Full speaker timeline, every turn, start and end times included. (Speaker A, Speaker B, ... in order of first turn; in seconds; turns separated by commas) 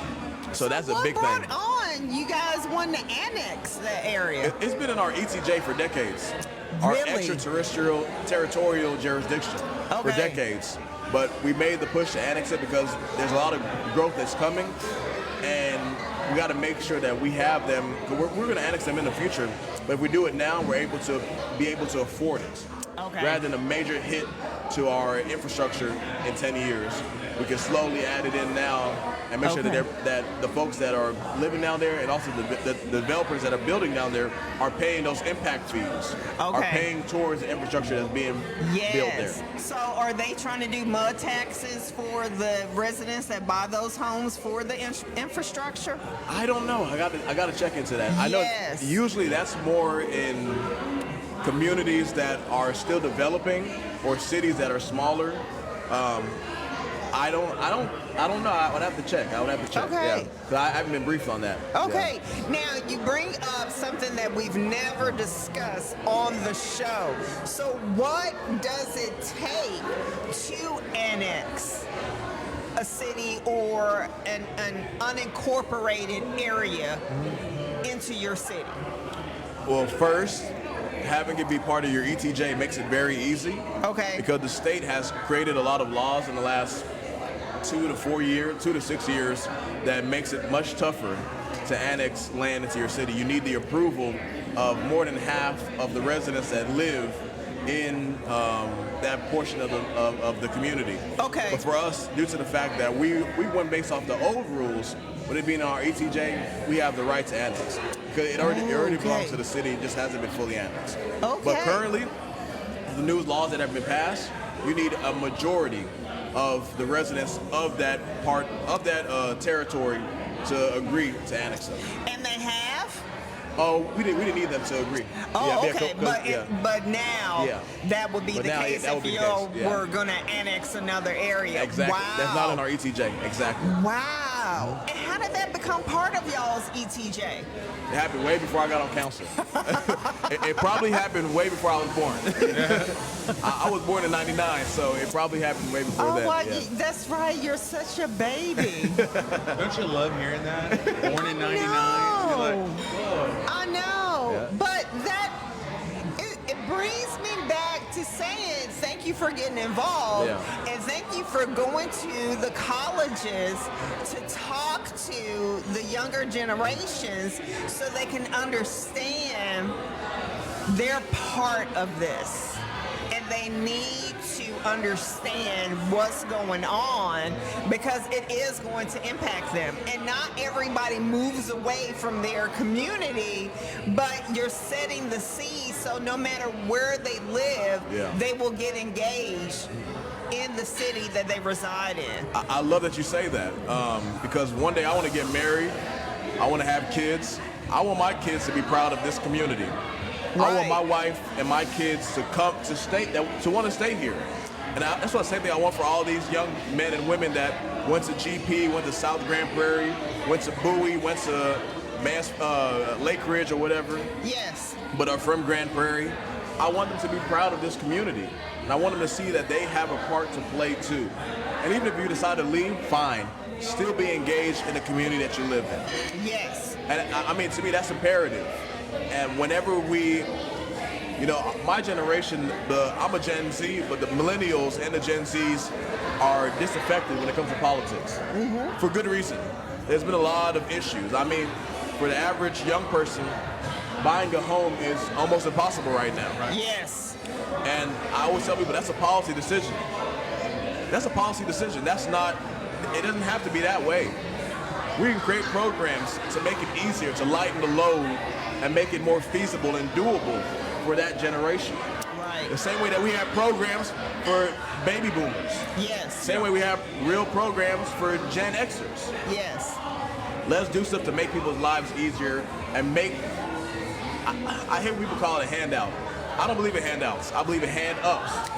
Speaker A: 0.5-1.5, Speaker B: 0.6-4.5, Speaker A: 4.4-14.8, Speaker B: 6.7-7.5, Speaker B: 9.9-10.4, Speaker A: 15.4-22.7, Speaker B: 23.0-23.4, Speaker A: 23.2-39.4, Speaker B: 29.4-29.8, Speaker B: 36.4-36.9, Speaker B: 38.6-46.0, Speaker A: 46.3-50.7, Speaker B: 48.1-49.0, Speaker A: 51.4-56.4, Speaker A: 57.1-62.1, Speaker B: 59.7-60.3, Speaker B: 61.7-71.9, Speaker B: 72.8-77.0, Speaker A: 77.1-77.4, Speaker B: 77.8-78.8, Speaker A: 79.7-83.7, Speaker B: 83.8-84.2, Speaker A: 84.2-86.9, Speaker A: 87.6-112.1, Speaker B: 101.2-101.6, Speaker B: 108.4-109.4, Speaker B: 111.2-111.8, Speaker A: 112.9-121.9, Speaker B: 121.9-123.0, Speaker A: 123.6-126.5, Speaker B: 125.2-132.6, Speaker A: 127.4-127.7, Speaker A: 128.3-129.8, Speaker A: 131.5-133.8, Speaker B: 133.6-137.5, Speaker A: 137.9-146.7, Speaker B: 139.4-141.0, Speaker C: 142.4-142.9, Speaker B: 146.0-149.1, Speaker A: 148.9-149.6, Speaker C: 149.5-153.4, Speaker A: 150.7-151.1, Speaker B: 151.0-152.9, Speaker B: 153.5-155.4, Speaker A: 154.3-154.5, Speaker B: 156.2-169.8, Speaker A: 160.1-160.5, Speaker B: 170.7-189.7, Speaker A: 187.9-188.2, Speaker B: 190.3-192.3, Speaker A: 192.3-195.8, Speaker A: 196.4-199.8, Speaker B: 200.4-200.8, Speaker A: 200.4-214.1, Speaker B: 214.2-214.8, Speaker A: 214.9-225.9, Speaker B: 226.1-226.8, Speaker A: 226.9-228.6, Speaker A: 229.1-230.3, Speaker A: 231.2-238.2, Speaker B: 238.3-238.8, Speaker A: 238.8-243.4, Speaker A: 244.0-246.5, Speaker B: 246.5-247.2, Speaker A: 247.6-249.9, Speaker A: 250.9-254.2, Speaker A: 255.0-261.8, Speaker B: 262.1-262.6, Speaker A: 262.5-265.7, Speaker B: 265.8-266.5, Speaker A: 266.2-269.1, Speaker B: 269.2-269.8, Speaker A: 270.4-273.3, Speaker A: 274.2-278.4